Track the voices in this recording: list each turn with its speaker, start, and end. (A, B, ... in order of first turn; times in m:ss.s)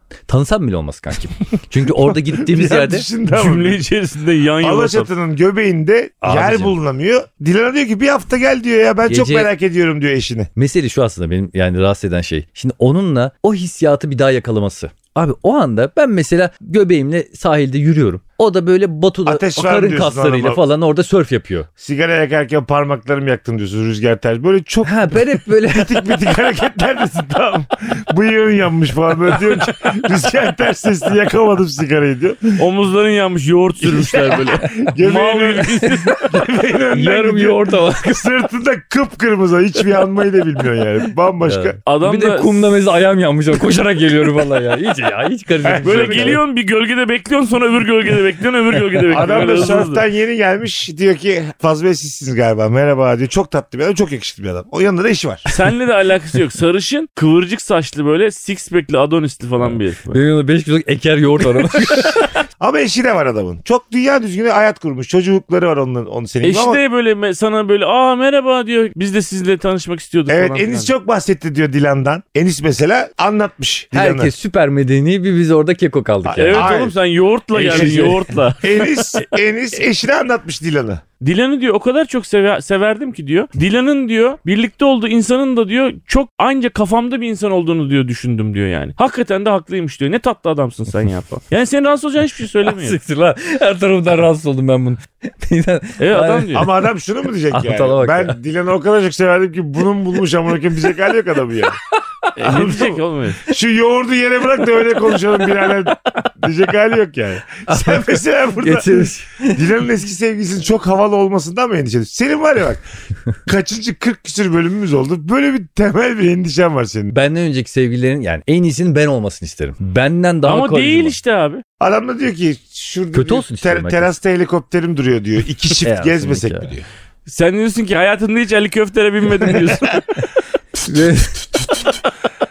0:00.3-0:03.1 A
0:01.9-0:03.8 B
0:03.3-0:05.1 C
0:04.6-0:10.5 B
0:06.2-0:06.8 A
0:09.0-0:09.5 A
0:10.6-0:21.7 A
0:19.3-0:20.6 B
0:21.8-0:32.6 B
0:24.8-0:26.1 A
0:32.6-0:36.4 C
0:33.8-0:41.8 B
0:36.9-0:38.3 A
0:41.4-0:46.4 A
0:41.9-0:42.8 C
0:45.6-0:46.4 B
0:45.8-0:50.0 C
0:49.0-0:49.7 A
0:49.1-0:55.5 B
0:55.5-1:00.2 C
0:59.6-1:02.3 A
1:01.7-1:02.3 C
1:02.6-1:06.8 B
1:06.4-1:10.9 C
1:10.3-1:14.3 B
1:13.9-1:16.8 A
1:16.2-1:17.0 B
1:16.4-1:19.2 C
1:17.5-1:18.3 A
1:17.6-1:21.0 B
1:21.2-1:33.0 C
1:32.7-1:36.7 A
1:36.0-1:36.7 C
1:36.5-1:41.8 B
1:37.5-1:38.4 A
1:42.3-1:42.8 A
1:42.4-1:43.4 C
1:42.4-1:52.8 B
1:47.7-1:49.7 A
1:53.4-1:57.2 B
1:57.1-2:01.2 A
2:00.5-2:01.6 C
2:01.8-2:06.8 B
2:03.1-2:04.1 A
2:05.8-2:06.7 A
2:07.3-2:10.2 C
2:10.8-2:11.9 A